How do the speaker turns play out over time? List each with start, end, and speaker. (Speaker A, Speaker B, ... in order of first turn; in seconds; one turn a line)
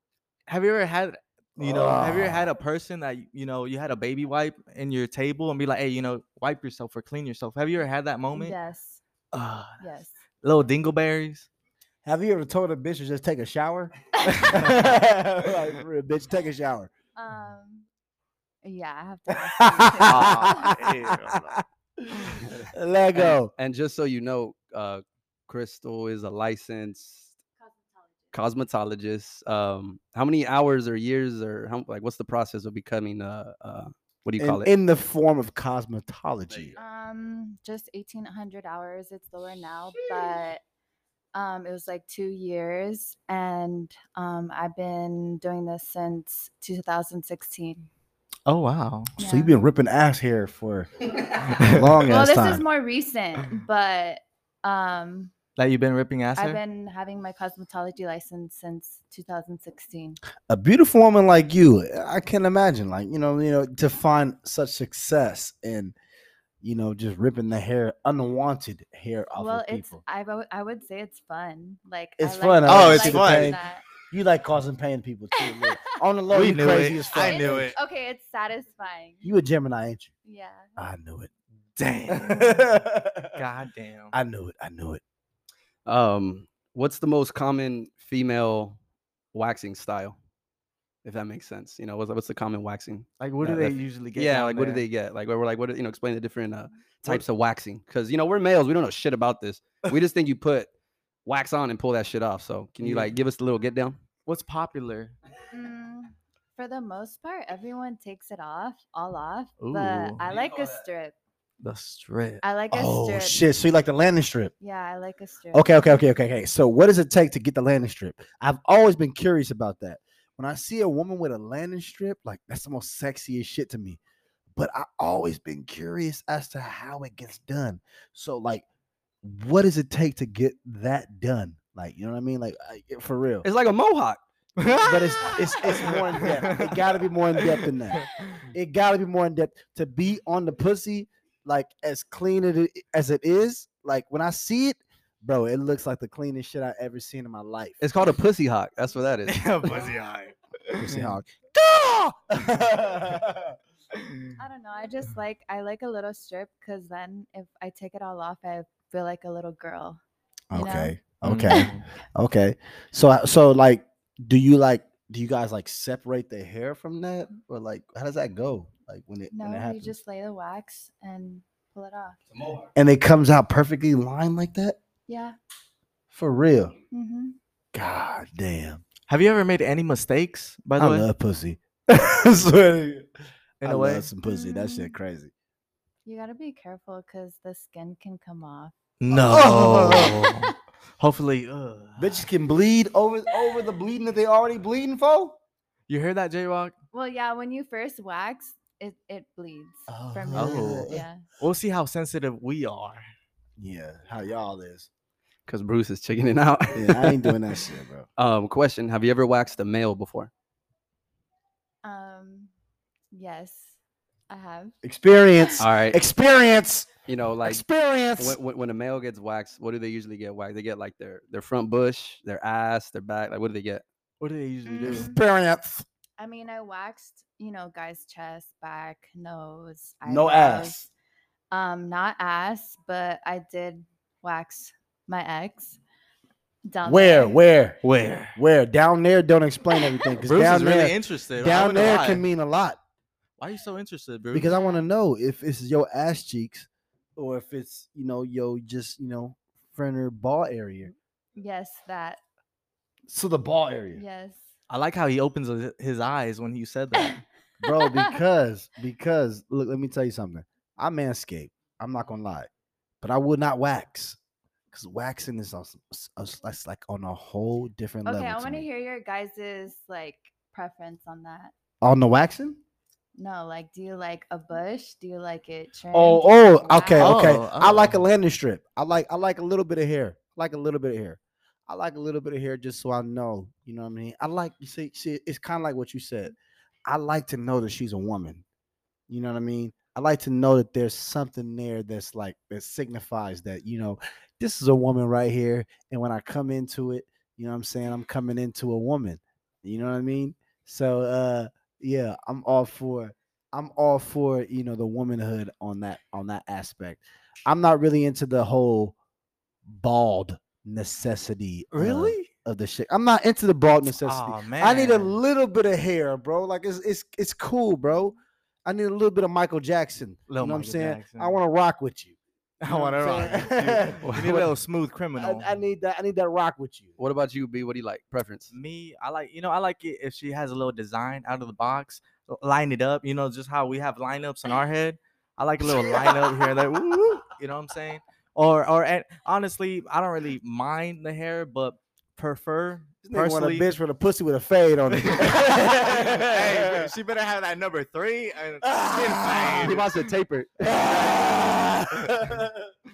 Speaker A: 0.5-8.6
Speaker B: 1.6-2.5
Speaker C: 8.3-9.0
Speaker A: 9.3-9.8
Speaker C: 9.8-10.2
Speaker A: 10.4-11.5
Speaker B: 12.0-16.9
Speaker A: 14.3-15.0
Speaker C: 17.1-17.9
Speaker C: 18.6-20.7
Speaker B: 19.4-23.5
Speaker A: 20.0-21.6
Speaker D: 22.4-27.4
Speaker C: 27.6-28.1
Speaker D: 28.3-34.7
Speaker B: 34.4-36.7
Speaker D: 36.5-36.8
Speaker C: 36.8-40.6
Speaker C: 41.3-47.9
Speaker A: 48.5-49.1
Speaker C: 49.2-49.5
Speaker B: 49.2-52.6
Speaker A: 51.5-51.9
Speaker C: 52.1-55.3
Speaker A: 55.6-56.6
Speaker C: 56.4-60.2
Speaker B: 60.5-65.9
Speaker B: 66.6-70.0
Speaker C: 69.3-73.8
Speaker B: 72.2-77.8
Speaker A: 72.6-73.6
Speaker C: 75.3-76.0
Speaker A: 76.3-77.8
Speaker C: 77.1-79.3
Speaker B: 79.2-80.1
Speaker C: 80.2-80.7
Speaker B: 80.8-81.3
Speaker A: 81.8-82.7
Speaker B: 82.1-83.4
Speaker A: 83.3-84.1
Speaker B: 84.1-85.0
Speaker D: 85.8-88.8
Speaker D: 89.3-90.2
Speaker D: 91.0-100.7
Speaker A: 93.2-94.8
Speaker D: 101.2-104.0
Speaker A: 102.8-103.1
Speaker A: 104.2-105.1
Speaker C: 105.5-111.1
Speaker A: 109.6-110.2
Speaker A: 111.6-112.4
Speaker C: 112.4-113.4
Speaker B: 112.7-114.5
Speaker C: 114.6-115.9
Speaker B: 115.5-124.0
Speaker B: 124.5-128.6
Speaker B: 129.2-133.5
Speaker D: 133.4-134.2
Speaker A: 134.6-138.4
Speaker B: 134.8-147.8
Speaker D: 147.8-149.9
Speaker A: 149.3-151.1
Speaker B: 150.8-153.6
Speaker A: 153.9-154.3
Speaker C: 154.4-160.0
Speaker B: 160.5-170.0
Speaker C: 160.5-161.0
Speaker A: 161.2-161.8
Speaker C: 169.3-172.2
Speaker D: 172.3-172.7
Speaker B: 172.7-174.8
Speaker C: 175.1-175.3
Speaker B: 176.1-176.7
Speaker C: 176.9-177.3
Speaker B: 177.7-178.8
Speaker A: 179.1-181.1
Speaker B: 180.8-183.1
Speaker A: 183.6-184.1
Speaker B: 183.6-185.3
Speaker C: 184.3-184.9
Speaker C: 186.0-188.7
Speaker A: 189.0-192.2
Speaker B: 189.1-190.3
Speaker B: 192.0-195.4
Speaker A: 195.9-196.7
Speaker C: 196.9-201.2
Speaker B: 199.9-201.0
Speaker A: 200.3-203.0
Speaker B: 203.6-204.9
Speaker D: 205.5-207.4
Speaker B: 206.7-208.1
Speaker D: 208.2-210.3
Speaker C: 211.8-212.5
Speaker C: 213.1-213.8
Speaker C: 214.3-214.7
Speaker B: 214.8-218.4
Speaker D: 215.6-216.0
Speaker D: 217.1-217.6
Speaker D: 218.2-223.8
Speaker A: 224.2-225.1
Speaker C: 224.7-225.2
Speaker B: 224.8-225.8
Speaker C: 226.2-230.9
Speaker B: 230.0-230.9
Speaker C: 231.5-235.8
Speaker C: 236.7-237.4
Speaker B: 236.8-237.8
Speaker A: 237.8-238.4
Speaker B: 238.3-242.8
Speaker A: 240.2-242.2
Speaker A: 243.4-244.5
Speaker B: 244.3-250.9
Speaker C: 244.5-244.8
Speaker C: 251.3-252.2
Speaker B: 253.1-254.0
Speaker C: 253.9-254.5
Speaker A: 254.7-257.2
Speaker B: 257.6-262.5
Speaker C: 257.7-258.2
Speaker B: 263.0-264.2
Speaker B: 264.7-268.6
Speaker C: 268.0-271.5
Speaker B: 271.8-272.6
Speaker C: 273.1-277.3
Speaker B: 275.9-288.4
Speaker A: 277.0-278.0
Speaker B: 289.1-308.9
Speaker B: 309.6-324.5
Speaker A: 311.7-312.3
Speaker A: 314.0-315.1
Speaker A: 320.3-321.4
Speaker A: 322.6-325.5
Speaker B: 325.1-326.9
Speaker D: 327.0-328.5
Speaker A: 328.5-343.7
Speaker B: 343.0-346.9
Speaker A: 344.9-349.9
Speaker B: 348.6-349.8
Speaker D: 349.5-351.2
Speaker B: 350.6-352.5
Speaker A: 350.6-352.4